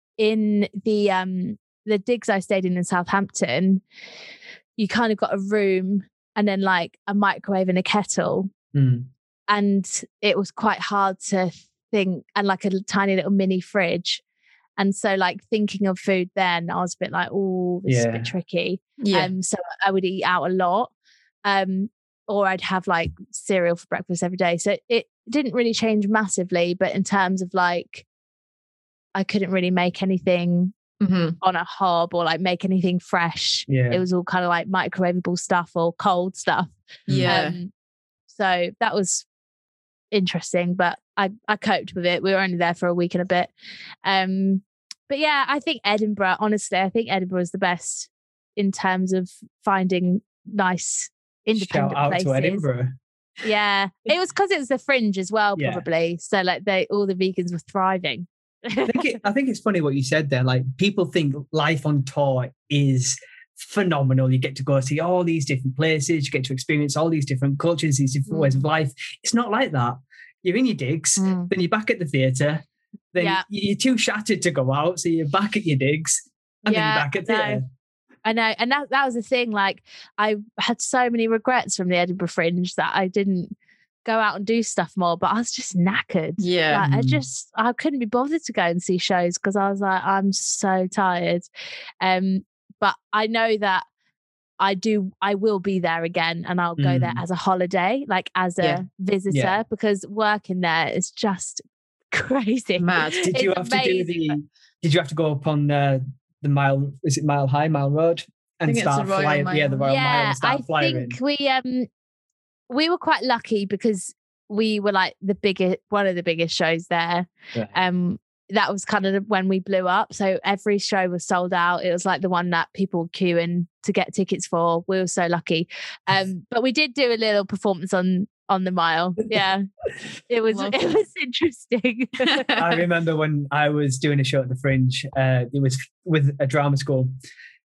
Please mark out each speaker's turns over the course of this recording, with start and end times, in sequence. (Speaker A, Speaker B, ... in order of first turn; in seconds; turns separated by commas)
Speaker A: 0.2-3.8, Speaker A: 4.8-8.5, Speaker B: 8.7-9.1, Speaker A: 9.5-14.2, Speaker A: 14.8-20.9, Speaker B: 17.9-18.3, Speaker C: 19.0-19.3, Speaker A: 21.4-28.1, Speaker A: 29.1-30.8, Speaker C: 31.0-31.4, Speaker A: 31.4-37.7, Speaker B: 33.7-34.0, Speaker C: 37.1-37.6, Speaker A: 38.3-39.3, Speaker A: 40.1-43.5, Speaker A: 44.0-52.6, Speaker B: 51.5-53.0, Speaker A: 53.4-59.1, Speaker B: 55.6-55.9, Speaker B: 58.9-77.7, Speaker A: 68.3-68.7, Speaker A: 71.2-71.5, Speaker A: 73.2-73.4, Speaker A: 76.7-77.6, Speaker A: 78.2-83.5, Speaker A: 84.0-91.5, Speaker C: 86.4-86.8, Speaker B: 86.8-87.2, Speaker A: 92.0-93.8, Speaker A: 94.6-104.4, Speaker B: 96.8-97.2, Speaker B: 99.3-99.6, Speaker C: 102.8-103.3, Speaker B: 103.2-111.2, Speaker C: 108.7-109.8, Speaker A: 109.8-111.9, Speaker A: 112.7-129.7, Speaker A: 130.3-132.5, Speaker C: 130.5-130.8, Speaker C: 132.2-132.6, Speaker B: 132.6-137.1